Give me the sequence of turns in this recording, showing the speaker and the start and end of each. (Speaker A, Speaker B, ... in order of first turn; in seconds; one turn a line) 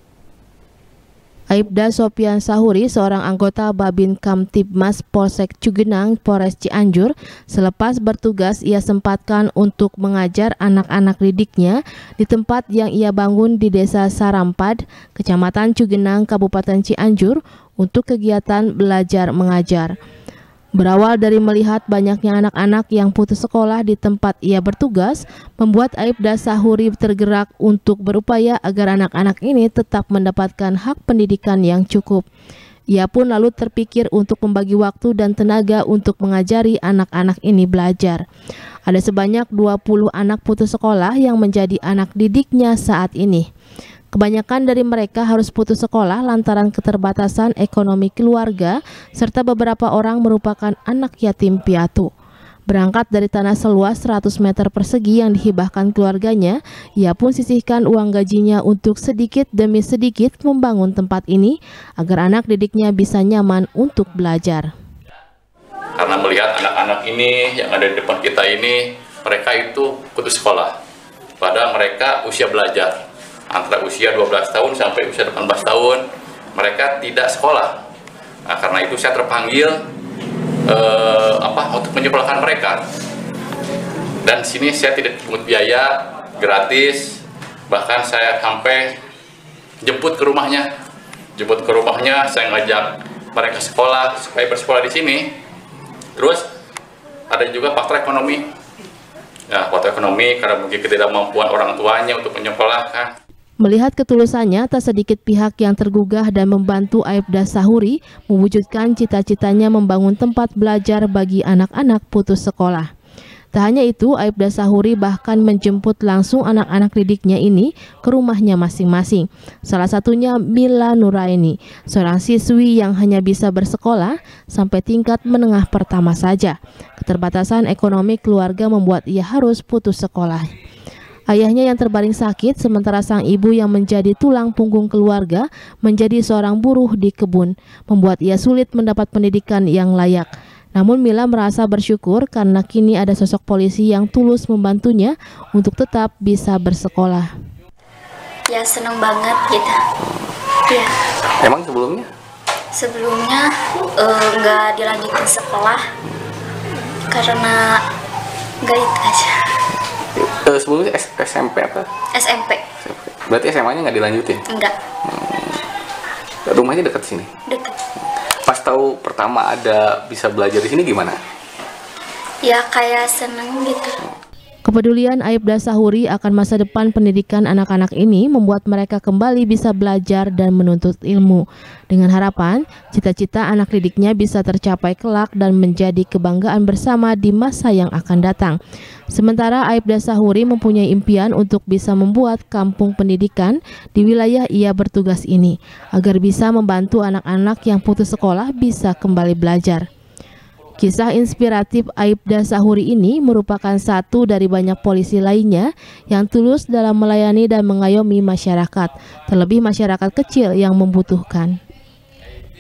Speaker A: 1.5-19.9
Speaker A: 20.8-32.2
Speaker A: 32.9-38.2
Speaker A: 38.9-43.5
Speaker A: 44.1-52.1
Speaker A: 52.7-64.7
Speaker B: 66.0-70.7
Speaker B: 71.4-73.0
Speaker B: 73.5-76.0
Speaker B: 76.5-77.8
Speaker B: 78.5-79.8
Speaker B: 80.7-82.8
Speaker B: 84.2-88.9
Speaker B: 89.8-90.7
Speaker B: 91.4-95.3
Speaker B: 96.2-96.4
Speaker B: 97.3-98.4
Speaker B: 99.5-103.1
Speaker A: 103.6-112.9
Speaker A: 113.5-130.5
Speaker A: 131.3-147.3
Speaker C: 148.5-149.8
Speaker D: 151.4-152.1
Speaker C: 152.8-153.4
Speaker C: 154.0-155.8
Speaker C: 157.1-157.6
Speaker C: 158.6-159.2
Speaker D: 160.2-161.9
Speaker C: 162.2-162.6
Speaker D: 162.8-164.4
Speaker D: 165.0-165.6
Speaker D: 166.5-167.3
Speaker D: 168.4-171.2
Speaker C: 172.5-173.9
Speaker A: 174.7-188.6
Speaker A: 189.1-199.9
Speaker A: 200.8-211.6